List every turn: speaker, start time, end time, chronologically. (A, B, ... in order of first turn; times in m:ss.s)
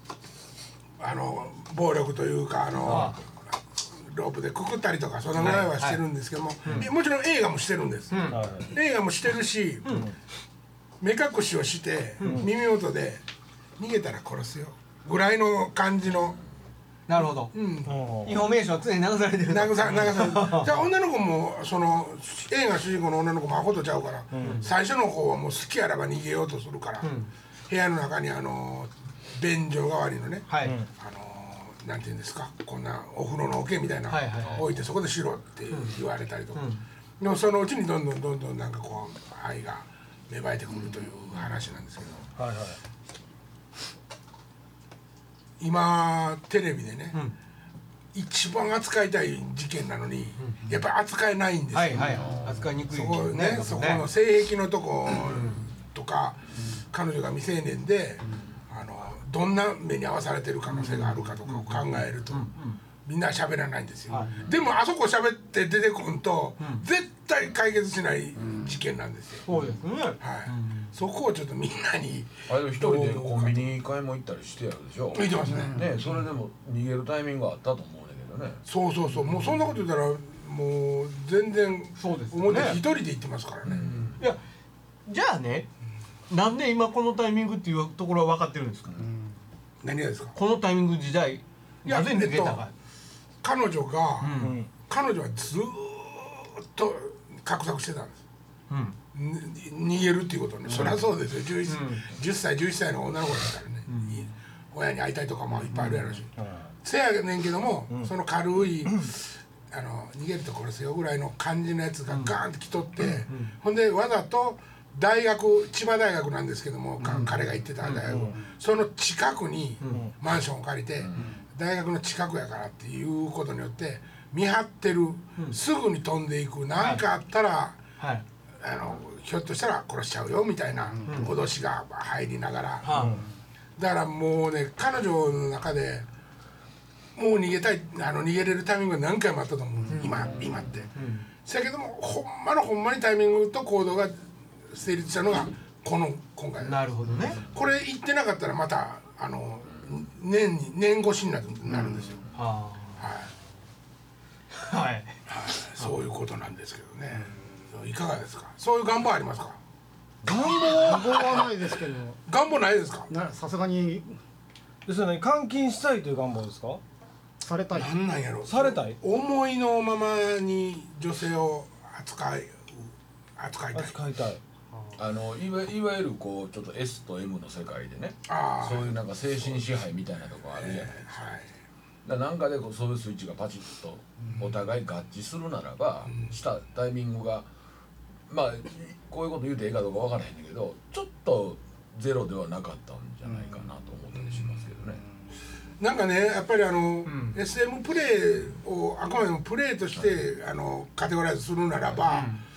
0:01.0-0:03.4 A
0:02.8-0:03.2 B
0:02.9-0:03.1 C
0:04.0-0:10.1 A
0:05.4-0:06.0 B
0:06.6-0:06.9 B
0:08.1-0:08.4 B
0:08.3-0:08.7 C
0:11.0-0:13.2 A
0:12.2-0:12.5 B
0:13.8-0:16.4 A
0:17.1-0:17.5 B
0:17.5-0:18.0 A
0:17.9-0:18.5 C
0:18.2-0:20.8 B
0:19.5-0:27.1 A
0:24.3-0:24.6 C
0:24.4-0:24.7 B
0:27.0-0:27.3 B
0:27.7-0:42.2 A
0:30.5-0:30.8 B
0:34.1-0:34.7 B
0:35.7-0:36.0 B
0:36.6-0:36.8 B
0:42.4-0:42.8 C
0:45.6-0:47.2 A
0:48.1-1:02.5 A
0:51.7-0:54.1 B
0:52.1-0:52.6 D
0:55.3-0:55.6 B
1:00.7-1:02.8 B
1:03.0-1:09.5 A
1:04.1-1:04.4 B
1:09.5-1:10.9 B
1:10.2-1:13.6 A
1:12.5-1:18.6 D
1:15.1-1:15.9 A
1:18.7-1:23.8 A
1:22.0-1:22.9 B
1:23.6-1:24.2 D
1:24.1-1:24.4 B
1:25.1-1:25.7 B
1:26.3-1:29.2 B
1:29.8-1:30.4 A
1:30.4-1:32.7 B
1:31.8-1:32.6 A
1:33.4-1:38.2 A
1:34.2-1:34.6 B
1:34.4-1:34.7 C
1:38.7-1:39.0 B
1:39.1-1:46.3 A
1:40.7-1:41.1 B
1:41.7-1:42.1 B
1:43.9-1:44.3 B
1:45.7-1:46.2 B
1:46.4-1:46.7 C
1:46.8-2:07.8 A
1:52.1-1:52.4 B
1:53.1-1:53.5 B
1:57.0-1:58.0 B
1:58.1-1:58.4 C
1:59.8-2:00.1 B
2:01.0-2:01.3 D
2:06.8-2:07.0 B
2:08.0-2:08.2 B
2:08.6-2:13.1 A
2:11.1-2:11.4 B
2:12.8-2:13.2 B
2:13.0-2:13.2 C
2:13.8-2:16.1 A
2:17.2-2:24.2 A
2:21.0-2:21.3 B
2:24.7-2:32.3 A
2:26.6-2:27.4 B
2:32.3-2:33.0 B
2:33.0-2:33.3 A
2:34.5-2:35.2 B
2:35.3-2:39.6 A
2:40.3-2:41.3 C
2:40.6-2:42.1 E
2:40.9-2:41.4 A
2:42.3-2:43.1 A
2:43.2-2:44.0 E
2:44.9-2:46.8 C
2:47.7-2:54.0 A
2:48.5-2:49.0 C
2:53.7-2:54.4 C
2:55.0-3:01.1 D
2:58.3-2:58.9 A
3:00.6-3:01.5 A
3:02.0-3:07.5 D
3:08.3-3:15.0 D
3:15.8-3:22.4 A
3:17.1-3:17.4 B
3:22.0-3:22.4 B